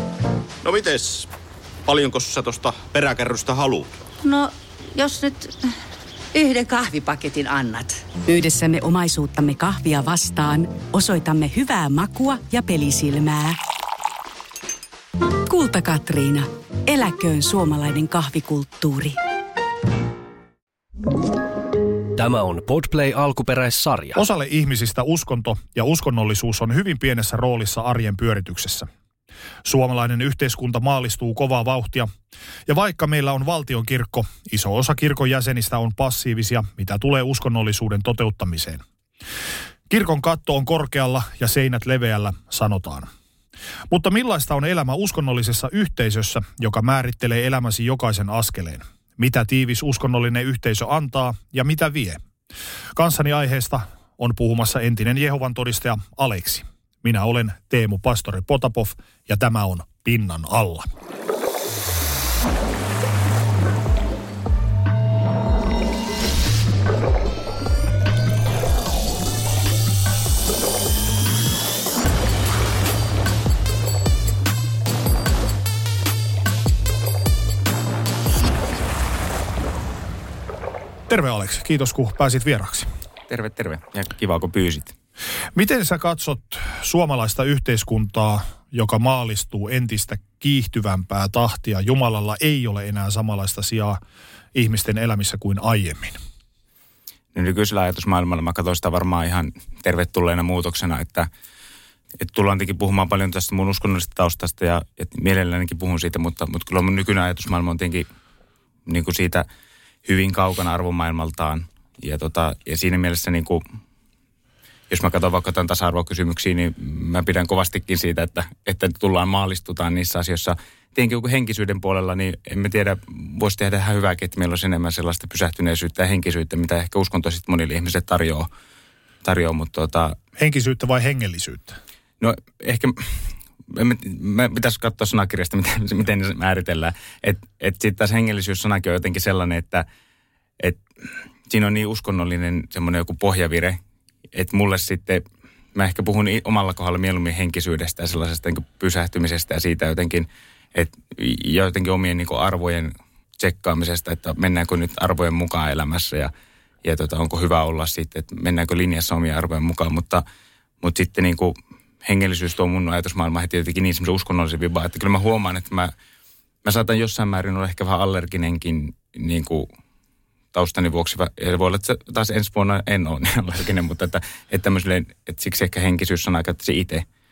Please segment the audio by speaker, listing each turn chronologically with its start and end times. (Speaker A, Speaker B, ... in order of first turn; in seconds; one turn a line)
Speaker A: 0.6-1.3
Speaker A: 1.9-3.9
Speaker B: 4.2-5.8
Speaker B: 6.3-8.1
Speaker C: 8.3-13.6
Speaker C: 15.5-19.2
Speaker D: 22.1-24.2
Speaker E: 24.1-28.9
Speaker E: 29.6-32.1
Speaker E: 32.7-38.8
Speaker E: 39.9-43.1
Speaker E: 43.9-52.2
Speaker E: 53.0-60.9
Speaker E: 81.1-82.9
Speaker F: 83.3-84.9
Speaker E: 85.5-94.0
Speaker E: 94.5-96.2
Speaker F: 97.3-101.3
Speaker F: 102.2-108.1
Speaker F: 108.9-109.5
Speaker F: 110.0-113.6
Speaker F: 114.9-128.5
Speaker F: 129.2-130.2
Speaker E: 130.4-131.8
Speaker F: 132.2-139.9
Speaker F: 141.5-143.8
Speaker F: 144.3-145.2
Speaker F: 145.8-156.3
Speaker F: 156.8-160.2
Speaker F: 160.8-165.9
Speaker F: 166.6-169.7
Speaker F: 170.5-177.1